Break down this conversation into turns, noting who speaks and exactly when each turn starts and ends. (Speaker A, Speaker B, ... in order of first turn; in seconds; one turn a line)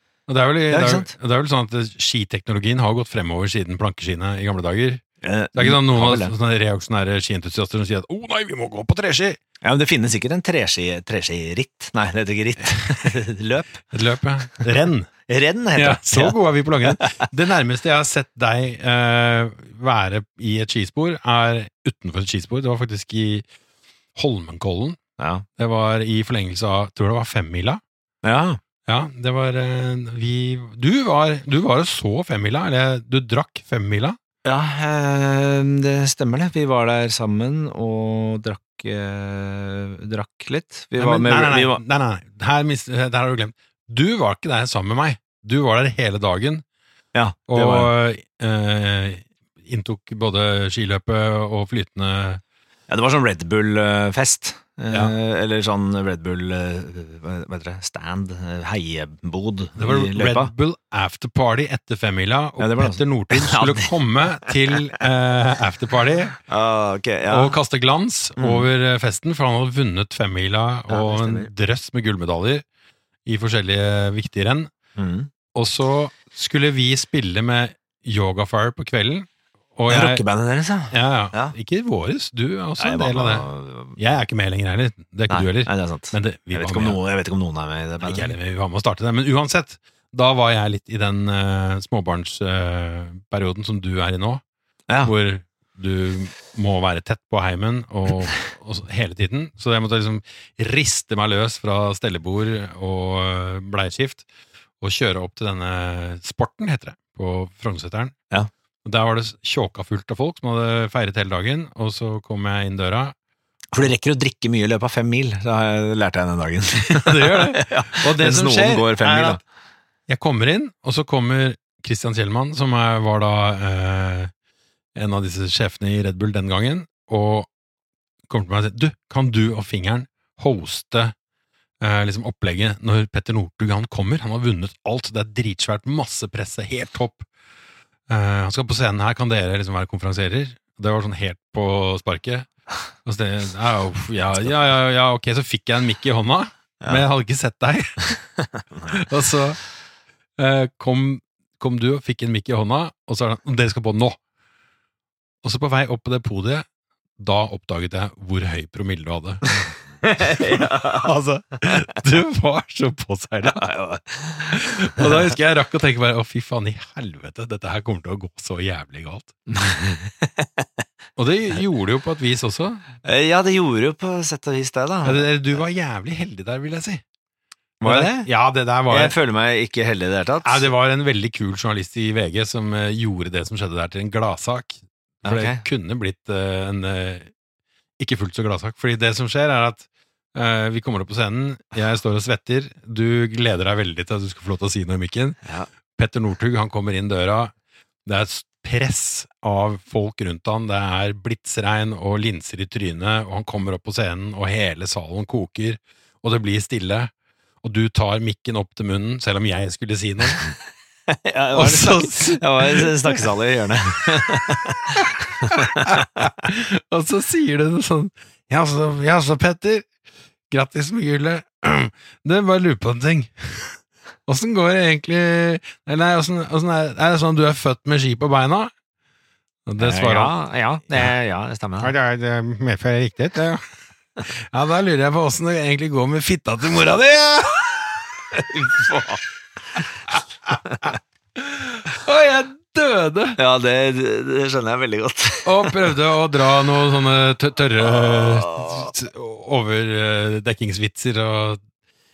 Speaker A: 0.3-5.0
Speaker B: 0.7-1.1
Speaker B: 5.2-6.3
Speaker A: 5.5-9.4
Speaker B: 9.6-13.8
Speaker A: 13.9-15.1
Speaker B: 15.3-17.1
Speaker A: 15.8-23.4
Speaker A: 24.1-25.0
Speaker B: 25.2-25.4
Speaker A: 25.6-27.8
Speaker B: 28.2-28.6
Speaker A: 28.9-34.2
Speaker B: 34.4-41.8
Speaker A: 41.0-46.6
Speaker B: 47.1-47.9
Speaker A: 47.5-52.4
Speaker B: 52.9-60.5
Speaker A: 59.8-66.4
Speaker B: 62.6-63.9
Speaker B: 66.5-67.5
Speaker A: 67.3-72.6
Speaker B: 68.4-68.7
Speaker B: 70.9-71.5
Speaker A: 73.2-74.7
Speaker B: 75.0-75.3
Speaker A: 75.5-80.2
Speaker B: 79.9-81.5
Speaker A: 80.9-87.0
Speaker B: 82.8-84.0
Speaker B: 85.3-88.3
Speaker A: 88.0-94.4
Speaker B: 94.9-95.1
Speaker A: 95.0-104.2
Speaker A: 104.8-108.2
Speaker A: 108.8-113.1
Speaker B: 113.7-119.4
Speaker A: 116.8-119.4
Speaker A: 120.1-124.3
Speaker A: 124.9-127.5
Speaker A: 128.3-131.1
Speaker A: 131.8-137.3
Speaker A: 138.1-142.5
Speaker A: 143.0-148.2
Speaker B: 148.7-149.0
Speaker A: 148.9-149.6
Speaker A: 150.4-154.2
Speaker A: 155.4-156.7
Speaker A: 157.2-159.5
Speaker B: 160.1-161.1
Speaker A: 160.2-163.6
Speaker B: 163.4-165.3
Speaker A: 164.5-169.3
Speaker B: 169.5-170.7
Speaker A: 171.2-172.8
Speaker B: 173.0-175.2
Speaker A: 175.0-177.0
Speaker B: 177.8-178.3
Speaker A: 177.8-179.1
Speaker B: 178.9-180.7
Speaker A: 180.4-187.3
Speaker B: 185.2-185.6
Speaker A: 188.0-195.4
Speaker A: 195.9-197.5
Speaker A: 198.1-207.1
Speaker A: 207.6-210.5
Speaker B: 211.1-216.2
Speaker A: 211.5-213.2
Speaker A: 215.5-219.9
Speaker A: 220.5-228.7
Speaker A: 229.7-230.3
Speaker B: 229.8-231.9
Speaker A: 231.8-233.7
Speaker A: 234.3-238.0
Speaker B: 238.3-239.2
Speaker B: 240.6-240.9
Speaker A: 241.4-243.4
Speaker B: 243.4-245.9
Speaker A: 245.4-251.6
Speaker B: 248.1-248.9